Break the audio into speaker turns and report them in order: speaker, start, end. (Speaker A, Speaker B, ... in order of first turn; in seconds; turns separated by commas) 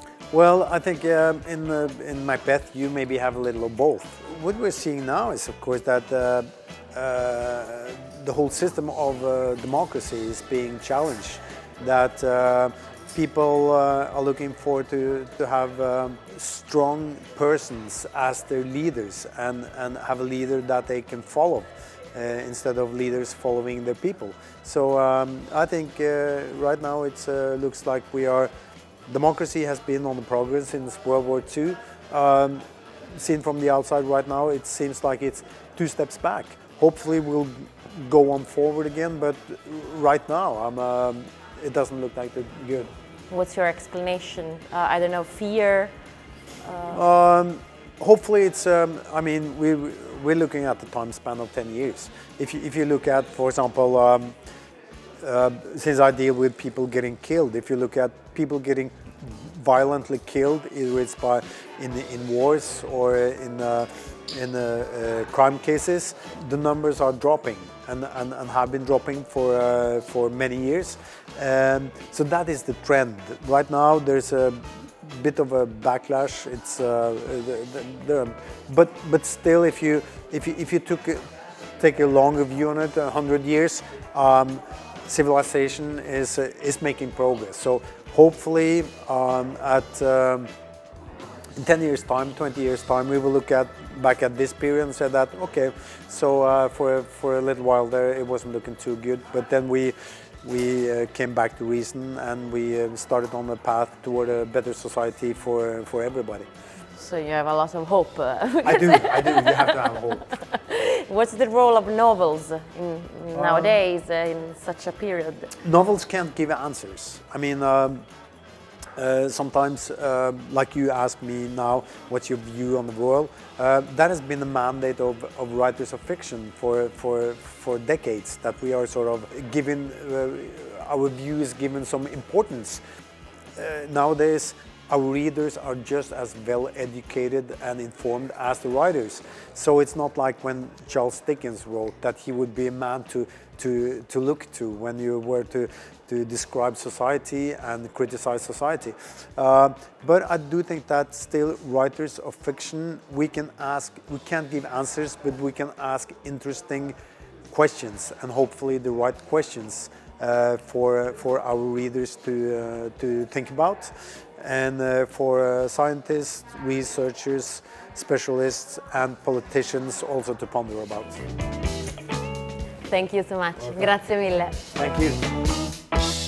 Speaker A: 0.3-28.5, Speaker A: 29.1-32.6, Speaker A: 33.1-42.9, Speaker B: 43.3-45.9, Speaker B: 46.6-47.0, Speaker A: 46.9-54.3, Speaker A: 55.2-81.2, Speaker A: 81.8-90.5, Speaker A: 91.6-106.5, Speaker B: 107.0-115.5, Speaker A: 108.6-110.3, Speaker A: 113.3-113.8, Speaker A: 115.6-118.0, Speaker A: 119.0-132.8, Speaker A: 133.6-156.9, Speaker A: 157.5-171.2, Speaker B: 172.9-174.6, Speaker A: 174.7-175.2